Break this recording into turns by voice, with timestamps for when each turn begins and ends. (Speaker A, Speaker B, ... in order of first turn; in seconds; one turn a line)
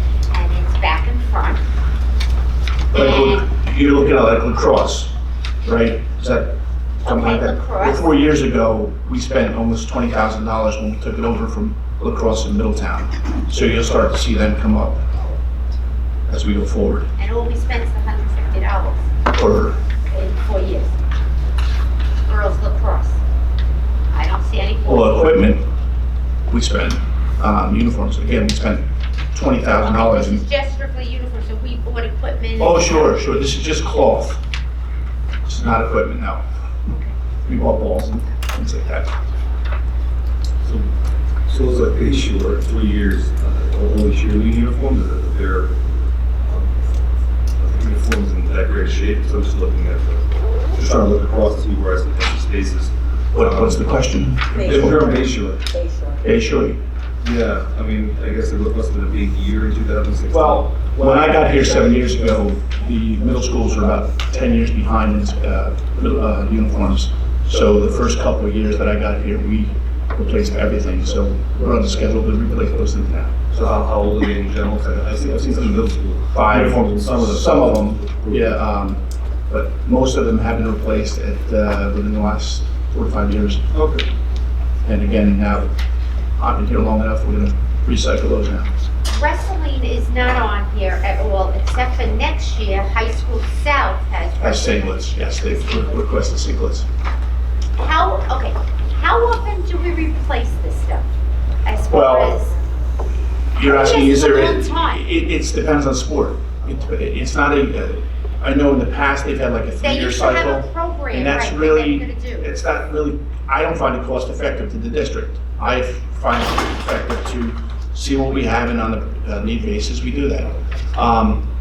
Speaker A: 0.3-1.6
Speaker A: 2.9-3.5
Speaker B: 2.9-15.3
Speaker A: 7.0-8.1
Speaker B: 16.3-17.1
Speaker A: 17.2-19.1
Speaker B: 19.3-19.8
Speaker A: 20.1-20.9
Speaker A: 22.3-23.2
Speaker A: 24.1-25.2
Speaker B: 24.9-25.6
Speaker B: 26.5-30.4
Speaker A: 29.8-33.1
Speaker B: 32.6-34.4
Speaker B: 35.5-36.5
Speaker B: 37.5-39.1
Speaker C: 40.6-40.9
Speaker C: 41.5-45.8
Speaker C: 46.4-46.8
Speaker C: 47.5-53.9
Speaker B: 53.3-55.3
Speaker C: 54.5-55.7
Speaker B: 56.2-56.8
Speaker C: 57.2-62.6
Speaker B: 60.3-73.4
Speaker C: 73.5-78.6
Speaker B: 76.3-83.7
Speaker C: 83.7-84.1
Speaker B: 84.8-85.7
Speaker B: 86.4-88.7
Speaker A: 89.1-95.6
Speaker B: 94.4-96.9
Speaker A: 97.8-101.1
Speaker A: 101.6-102.5
Speaker B: 101.9-102.4
Speaker B: 103.5-121.5
Speaker A: 103.6-105.0
Speaker A: 109.8-112.5